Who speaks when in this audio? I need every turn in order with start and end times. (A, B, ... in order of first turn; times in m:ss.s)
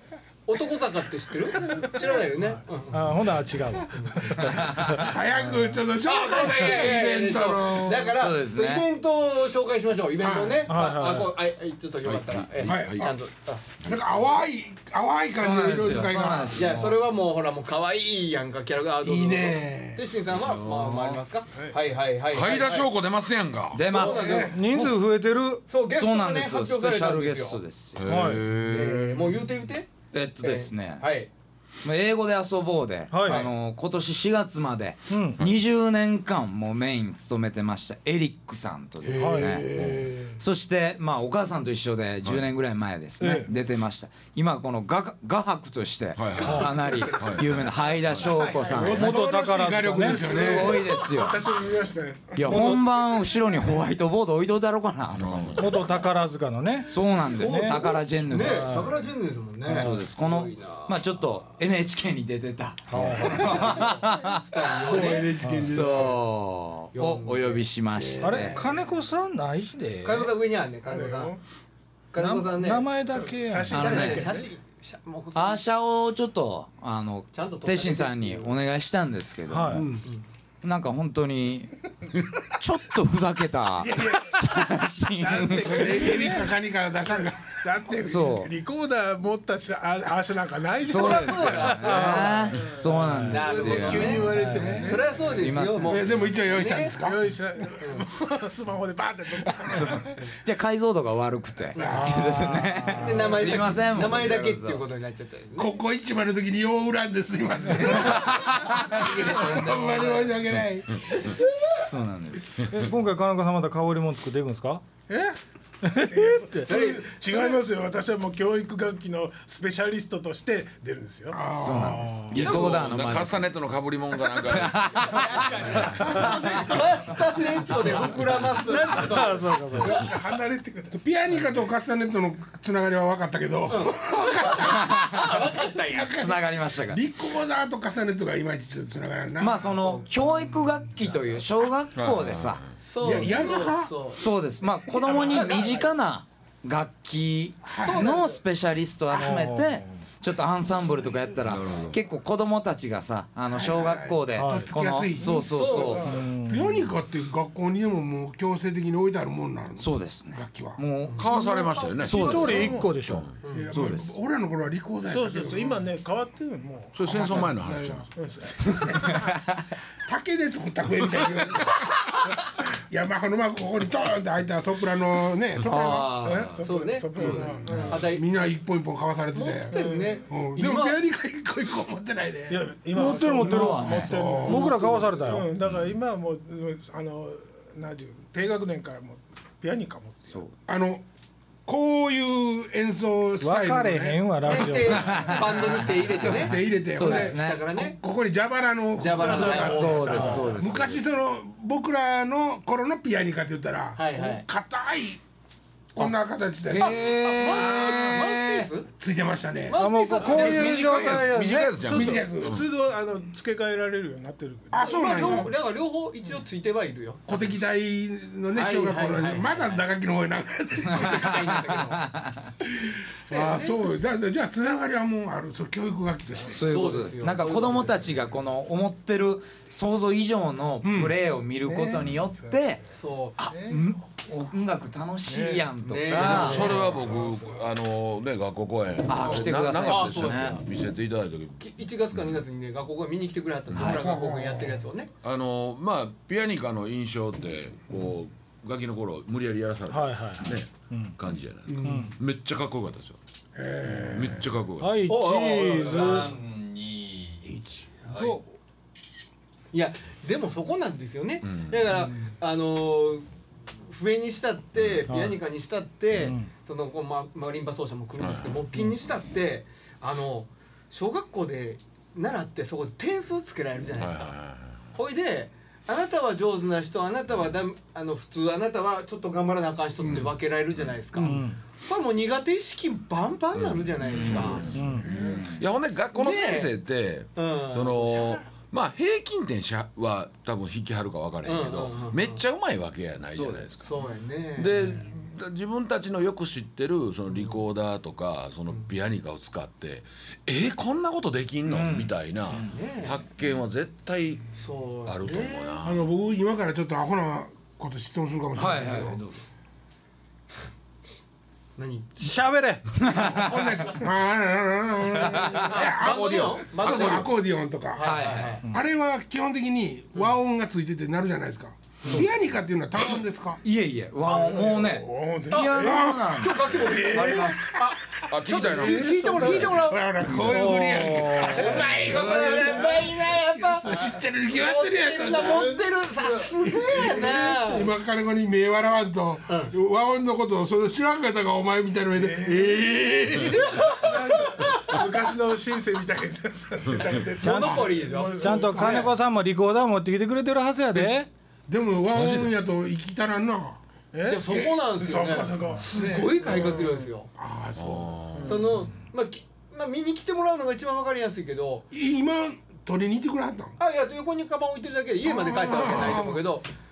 0:00.5-0:03.2 A
0:01.8-0:02.6 B
0:02.9-0:05.0 C
0:03.9-0:04.7 A
0:04.4-0:05.1 D
0:04.9-0:08.1 E
0:06.0-0:14.2 A
0:08.1-0:08.9 D
0:10.2-0:10.7 E
0:10.7-0:11.4 C
0:12.0-0:13.1 F
0:12.6-0:13.1 E
0:13.8-0:16.8 E
0:15.4-0:16.9 D
0:16.5-0:22.9 A
0:19.0-0:20.0 E
0:20.3-0:21.2 F
0:22.3-0:23.8 F
0:23.7-0:24.5 D
0:23.8-0:24.6 A
0:24.0-0:25.0 E
0:24.4-0:25.6 C
0:25.7-0:27.6 A
0:25.9-0:28.1 D
0:28.0-0:29.4 F
0:28.0-0:28.5 C
0:28.6-0:31.3 A
0:28.8-0:29.3 E
0:30.1-0:31.1 D
0:31.8-0:39.7 D
0:33.1-0:33.5 C
0:35.1-0:35.4 C
0:39.0-0:40.4 E
0:39.2-0:39.6 C
0:39.8-0:40.0 F
0:40.4-0:49.2 D
0:43.2-0:43.5 C
0:46.2-0:48.2 F
0:46.3-0:47.4 A
0:48.1-0:48.9 B
0:48.7-0:51.0 E
0:48.9-0:50.5 C
0:50.1-0:51.4 D
0:50.4-0:52.8 B
0:52.4-0:55.8 D
0:52.4-0:52.8 C
0:55.2-0:55.8 F
0:55.6-0:58.9 C
0:56.9-0:58.8 D
0:57.3-1:01.0 A
0:59.6-1:04.5 D
1:02.9-1:03.6 C
1:02.9-1:03.3 F
1:03.3-1:05.4 A
1:04.8-1:06.2 E
1:05.4-1:05.7 C
1:05.6-1:08.7 D
1:07.0-1:07.7 A
1:08.0-1:08.7 E
1:08.2-1:10.3 C
1:08.4-1:08.6 A
1:10.0-1:11.4 A
1:10.9-1:11.4 B
1:12.1-1:12.9 A
1:12.2-1:14.1 C
1:13.2-1:14.5 B
1:13.7-1:14.3 D
1:13.7-1:15.6 A
1:15.4-1:19.9 D
1:17.3-1:18.5 A
1:19.5-1:19.9 C
1:19.7-1:20.1 E
1:20.6-1:21.8 D
1:22.6-1:26.0 D
1:23.8-1:26.5 B
1:25.6-1:27.7 E
1:27.1-1:32.1 B
1:28.0-1:28.5 D
1:30.8-1:34.3 D
1:30.9-1:32.6 A
1:31.8-1:33.3 C
1:33.3-1:36.9 A
1:33.3-1:35.3 B
1:33.6-1:35.2 E
1:34.2-1:34.8 C
1:35.2-1:36.0 D
1:35.8-1:37.3 E
1:37.0-1:40.1 B
1:39.7-1:44.8 D
1:41.7-1:43.3 E
1:41.8-1:42.0 A
1:42.5-1:43.1 C
1:42.9-1:45.8 A
1:45.6-1:51.0 E
1:47.8-1:50.2 D
1:51.8-1:52.6 D
1:52.7-1:54.8 C
1:55.1-1:55.4 B
1:55.8-1:56.7 C
1:55.9-2:01.4 B
1:56.6-1:57.6 A
2:01.3-2:02.8 E
2:01.6-2:03.5 D
2:02.3-2:05.9 F
2:02.4-2:02.9 A
2:04.4-2:06.8 D
2:05.0-2:09.9 A
2:06.2-2:06.7 B
2:07.7-2:08.2 D
2:08.6-2:11.1 B
2:08.9-2:10.0 C
2:10.9-2:20.1 E
2:13.7-2:16.1 A
2:14.7-2:15.4 D
2:16.2-2:17.0 D
2:19.4-2:22.6 D
2:22.0-2:22.7 F
2:22.8-2:24.2 A
2:23.0-2:24.0 E
2:24.1-2:36.1 D
2:24.9-2:25.7 E
2:25.3-2:25.9 A
2:27.6-2:28.1 E
2:27.8-2:28.4 A
2:29.1-2:30.0 C
2:31.4-2:32.0 F
2:33.5-2:40.8 E
2:34.4-2:34.7 C
2:35.2-2:36.3 B
2:35.5-2:36.1 A
2:36.1-2:36.7 C
2:39.8-2:41.2 D
2:41.0-2:42.6 A
2:41.2-2:43.4 F
2:42.0-2:43.0 B
2:42.1-2:43.4 C
2:42.1-2:42.6 D
2:43.4-2:43.7 A
2:43.5-2:45.8 E
2:43.7-2:44.1 D
2:45.1-2:47.5 B
2:47.0-2:48.1 F
2:47.0-2:49.0 E
2:48.2-2:49.3 B
2:48.9-2:49.6 D
2:50.1-2:56.4 E
2:55.7-2:56.0 D
2:55.7-2:58.2 A
2:56.2-2:58.0 B
2:57.2-3:03.4 E
2:57.2-2:58.0 D
2:59.4-3:01.0 A
2:59.7-3:00.2 B
3:02.5-3:10.4 B
3:03.0-3:05.5 C
3:03.3-3:04.2 D
3:04.1-3:05.0 E
3:05.6-3:05.9 F
3:10.3-3:10.5 D
3:10.7-3:11.0 E
3:11.7-3:25.2 E
3:13.4-3:15.3 C
3:14.4-3:18.0 A
3:14.9-3:15.8 D
3:16.9-3:17.6 D
3:19.0-3:20.5 A
3:19.1-3:20.6 B
3:19.4-3:21.1 D
3:24.0-3:24.4 A
3:25.9-3:28.3 E
3:26.7-3:28.7 D
3:26.7-3:28.9 A
3:29.0-3:32.6 E
3:29.7-3:31.2 A
3:29.8-3:32.2 C
3:30.3-3:32.6 F
3:32.1-3:35.5 B
3:34.7-3:35.5 E
3:34.8-3:37.2 A
3:37.3-3:41.7 E
3:38.5-3:39.8 A
3:40.9-3:42.5 D
3:40.9-3:42.1 A
3:42.8-3:46.9 E
3:43.3-3:43.9 A
3:46.4-3:52.8 D
3:46.6-3:48.0 A
3:50.8-3:51.2 E
3:51.6-3:52.6 B
3:53.0-3:53.4 A
3:53.4-3:56.8 D
3:53.5-3:53.8 B
3:55.8-3:57.2 A
3:56.1-4:02.4 F
3:56.4-3:57.2 E
3:59.1-4:00.6 D
3:59.2-4:00.6 A
4:01.6-4:05.1 A
4:03.7-4:04.0 F
4:03.8-4:04.8 E
4:05.2-4:13.2 F
4:09.9-4:11.2 C
4:11.7-4:12.1 E
4:11.8-4:12.2 C
4:13.6-4:14.5 E
4:14.1-4:15.0 F
4:14.8-4:16.3 C
4:15.1-4:16.3 A
4:15.7-4:17.5 D
4:17.4-4:18.5 E
4:18.0-4:18.4 D
4:19.7-4:23.3 A
4:21.4-4:21.9 F
4:23.9-4:34.3 A
4:24.8-4:25.0 F
4:25.1-4:25.4 C
4:26.1-4:26.5 C
4:28.2-4:29.0 F
4:34.0-4:34.8 F
4:34.9-4:44.8 A
4:40.0-4:41.3 F
4:41.2-4:41.6 C
4:43.5-4:53.9 F
4:44.2-4:44.5 D
4:44.5-4:45.5 E
4:44.7-4:45.1 C
4:45.0-4:45.6 D
4:46.1-4:46.7 A
4:47.4-4:48.4 A
4:51.4-4:52.4 A
4:53.3-4:53.9 D
4:53.8-4:55.0 A
4:54.6-5:04.5 F
5:01.7-5:02.8 D
5:02.5-5:03.2 A
5:04.5-5:05.8 A
5:05.0-5:06.1 F
5:05.8-5:09.2 E
5:08.6-5:09.4 D
5:11.8-5:12.1 A
5:12.2-5:13.1 C
5:13.0-5:14.0 D
5:13.1-5:23.6 E
5:15.2-5:15.7 D
5:15.7-5:17.3 A
5:16.0-5:17.3 F
5:17.9-5:18.6 A
5:18.0-5:18.6 D
5:22.0-5:22.3 A
5:23.6-5:27.6 D
5:24.2-5:24.9 A
5:24.7-5:26.1 B
5:25.5-5:33.9 A
5:25.8-5:26.6 E
5:26.7-5:27.7 B
5:28.3-5:29.9 F
5:28.8-5:35.7 E
5:28.8-5:29.6 B
5:34.5-5:37.9 A
5:35.3-5:37.4 B
5:36.8-5:43.7 E
5:39.5-5:39.7 A
5:42.1-5:49.1 B
5:43.4-5:45.0 A
5:47.4-5:49.1 A
5:47.6-5:47.9 E
5:48.2-5:51.3 C
5:50.9-5:53.8 E
5:52.1-5:52.5 F
5:54.1-5:57.1 B
5:54.2-5:57.3 A
5:54.5-5:54.8 E
5:55.8-5:58.5 E
5:57.8-5:58.6 F
5:58.4-5:58.8 B
5:58.4-6:01.9 A
6:01.9-6:03.7 E
6:03.8-6:06.7 A
6:05.2-6:06.5 E